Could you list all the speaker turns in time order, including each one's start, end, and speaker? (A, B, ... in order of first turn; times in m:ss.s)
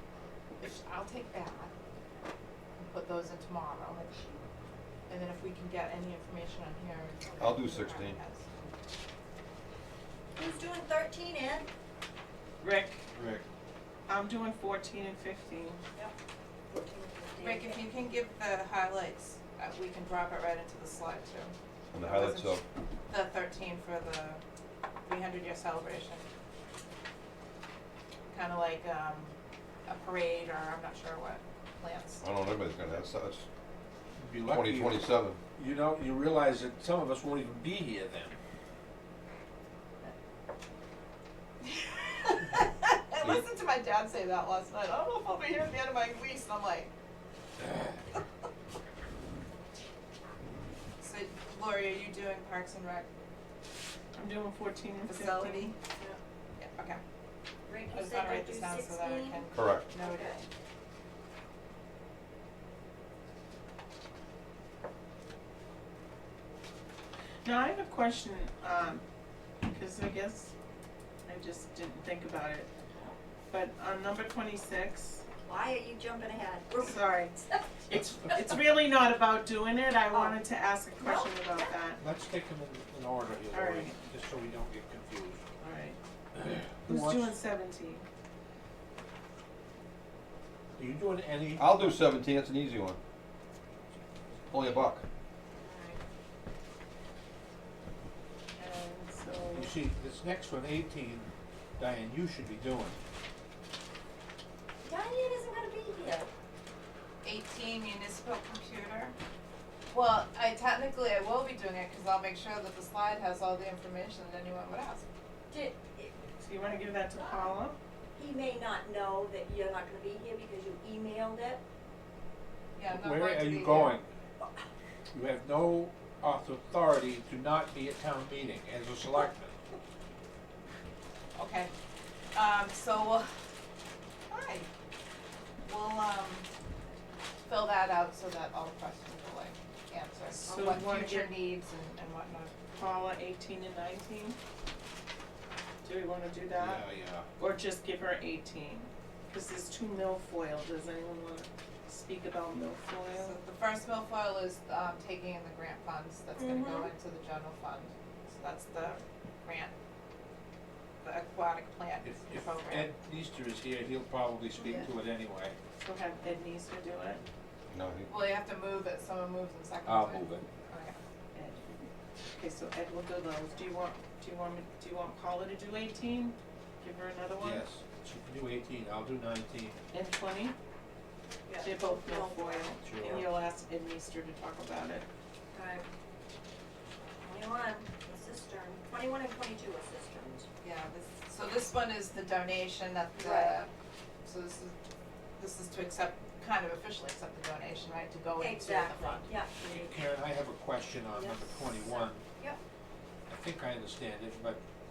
0:00.6-0:01.7 A
0:02.8-0:04.1 A
0:04.0-0:04.4 B
0:05.1-0:08.7 A
0:07.4-0:08.2 C
0:10.4-0:11.7 B
0:12.6-0:13.0 D
0:13.2-0:13.4 C
0:14.1-0:15.8 D
0:16.7-0:17.8 B
0:17.4-0:24.4 A
0:21.9-0:22.6 C
0:25.0-0:26.3 A
0:28.3-0:32.2 A
0:32.2-0:33.5 C
0:34.2-0:38.4 E
0:34.5-0:35.4 C
0:41.6-0:46.9 A
0:51.0-0:53.1 A
0:54.2-0:55.7 D
0:55.1-0:55.8 A
0:56.6-0:57.0 A
0:57.7-1:00.4 B
0:57.9-1:00.3 A
0:59.5-0:59.9 C
1:07.4-1:09.0 D
1:09.6-1:10.5 D
1:11.3-1:12.7 D
1:13.5-1:15.2 D
1:15.4-1:17.0 B
1:16.8-1:22.0 D
1:21.0-1:21.7 B
1:22.0-1:25.4 E
1:23.5-1:24.0 D
1:25.6-1:26.0 D
1:26.4-1:27.3 E
1:26.8-1:28.1 D
1:30.8-1:32.0 E
1:31.6-1:33.0 C
1:34.5-1:35.0 C
1:35.6-1:36.0 B
1:38.6-1:39.7 D
1:39.5-1:43.0 E
1:44.8-1:46.3 B
1:47.2-1:49.2 A
1:49.9-1:55.1 A
1:55.5-1:56.3 B
1:56.4-1:57.8 D
1:58.2-2:01.6 B
2:02.8-2:04.0 A
2:02.9-2:04.1 E
2:05.1-2:09.6 E
2:11.4-2:11.7 A
2:12.3-2:13.3 A
2:14.3-2:14.7 A
2:15.6-2:16.5 A
2:17.4-2:22.6 A
2:20.3-2:21.4 D
2:22.7-2:24.4 D
2:25.8-2:26.8 D
2:26.6-2:27.3 E
2:27.4-2:33.4 D
2:33.2-2:39.7 A
2:36.4-2:36.9 B
2:41.0-2:42.9 A
2:42.0-2:45.6 E
2:45.8-2:47.2 D
2:47.7-2:48.1 C
2:48.1-2:51.0 A
2:49.8-2:50.5 E
2:51.3-2:57.6 D
2:57.4-2:59.8 E
2:59.9-3:00.6 D
3:01.5-3:02.7 B
3:01.6-3:05.1 D
3:02.8-3:03.3 E
3:05.5-3:05.8 B
3:07.2-3:10.5 B
3:10.6-3:13.7 A
3:13.2-3:13.6 B
3:14.2-3:14.8 A
3:15.4-3:19.3 A
3:18.4-3:20.0 B
3:19.6-3:22.2 E
3:21.1-3:21.6 B
3:23.3-3:24.6 E